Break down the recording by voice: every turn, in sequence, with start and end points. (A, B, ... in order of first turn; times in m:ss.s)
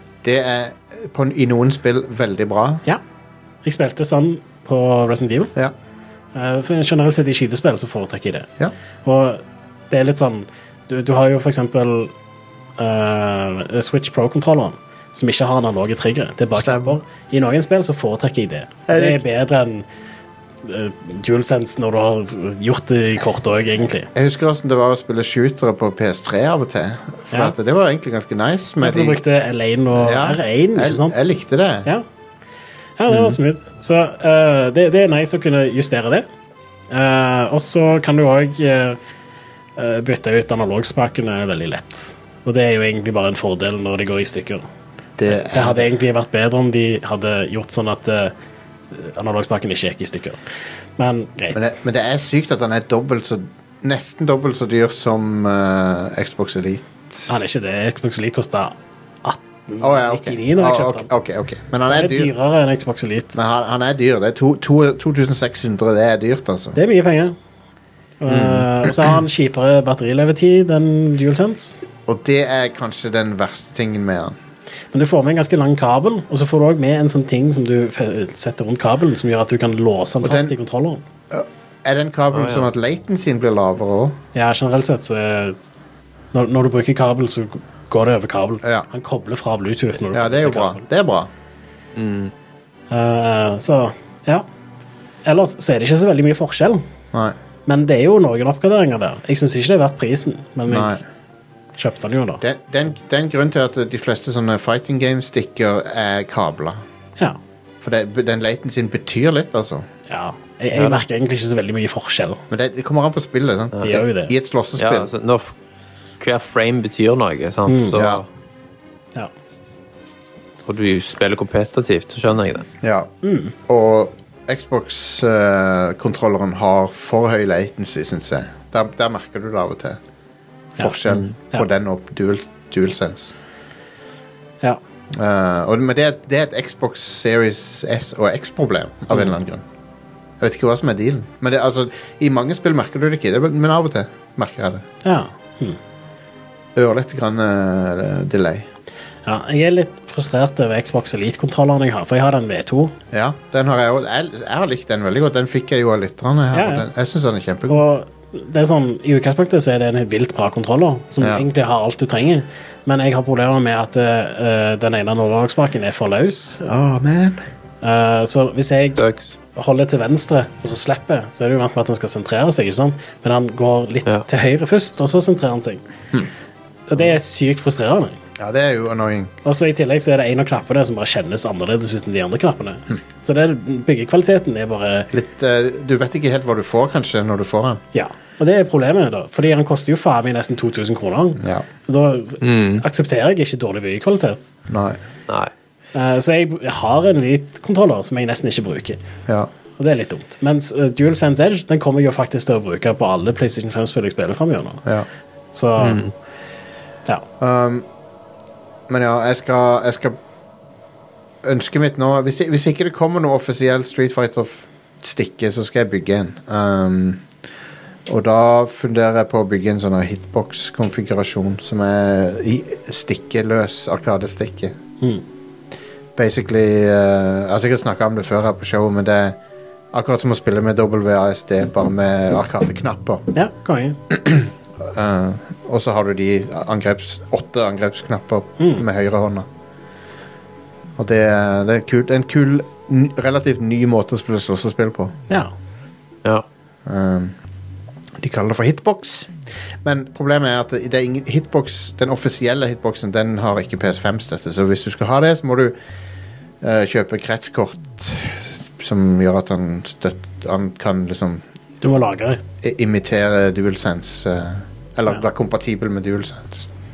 0:00.2-0:02.8 A
0:03.6-0:05.5 B
0:06.3-0:08.5 B
0:09.0-0:12.1 B
0:12.8-0:19.8 B
0:16.5-0:17.0 A
0:18.9-0:19.2 A
0:20.6-0:24.1 B
0:24.1-0:29.2 A
0:28.8-0:31.2 B
0:29.9-0:31.9 A
0:33.0-0:36.2 B
0:36.9-0:39.0 B
0:39.8-0:44.6 B
0:45.2-0:45.8 A
0:45.3-0:48.3 B
0:48.9-0:50.4 B
0:51.0-0:51.6 B
0:51.5-0:57.3 A
0:57.3-1:01.1 B
0:59.8-1:02.3 A
1:01.8-1:03.4 B
1:03.3-1:06.8 A
1:06.7-1:07.4 B
1:08.2-1:11.8 B
1:08.3-1:08.6 C
1:12.0-1:14.4 A
1:14.9-1:21.0 B
1:20.2-1:20.5 A
1:21.3-1:24.2 A
1:22.3-1:22.7 C
1:24.3-1:25.6 B
1:26.3-1:30.8 B
1:30.1-1:31.3 A
1:31.9-1:32.3 C
1:32.9-1:34.4 B
1:35.2-1:36.8 B
1:37.6-1:41.0 B
1:40.7-1:41.0 A
1:41.8-1:42.4 B
1:42.4-1:46.8 A
1:47.8-1:49.8 A
1:50.1-1:52.4 B
1:50.7-1:51.0 C
1:52.5-1:55.1 A
1:53.8-1:54.3 B
1:54.8-1:55.5 C
1:56.2-1:58.2 C
1:57.7-1:58.0 B
1:57.9-1:58.2 A
2:00.6-2:02.6 C
2:02.8-2:03.1 A
2:03.2-2:03.5 B
2:03.6-2:10.0 A
2:10.7-2:13.3 A
2:15.1-2:19.6 A
2:20.4-2:24.8 A
2:25.0-2:25.8 B
2:26.8-2:28.7 A
2:29.2-2:32.9 B
2:33.1-2:37.8 A
2:36.5-2:36.8 B
2:37.7-2:46.6 B
2:41.2-2:41.4 A
2:46.6-2:47.4 A
2:47.8-2:49.0 B
2:49.0-2:49.4 C
2:49.5-2:55.8 B
2:56.9-2:58.2 B
2:58.4-2:59.3 A
2:59.4-3:05.1 B
3:05.1-3:07.8 A
3:07.9-3:14.4 B
3:11.4-3:11.6 A
3:12.4-3:12.8 C
3:14.7-3:15.0 A
3:15.9-3:19.0 B
3:19.8-3:24.8 B
3:25.5-3:26.1 B
3:25.8-3:26.1 C
3:27.4-3:27.8 A
3:28.9-3:30.2 A
3:31.4-3:37.2 A
3:38.1-3:44.8 A
3:46.2-3:49.4 A
3:49.9-3:53.2 A
3:53.3-3:54.0 B
3:54.1-3:59.5 A
3:58.6-3:58.8 B
4:01.0-4:05.1 A
4:06.8-4:07.4 A
4:08.2-4:15.7 A
4:16.6-4:21.4 A
4:21.8-4:22.4 B
4:22.6-4:26.7 A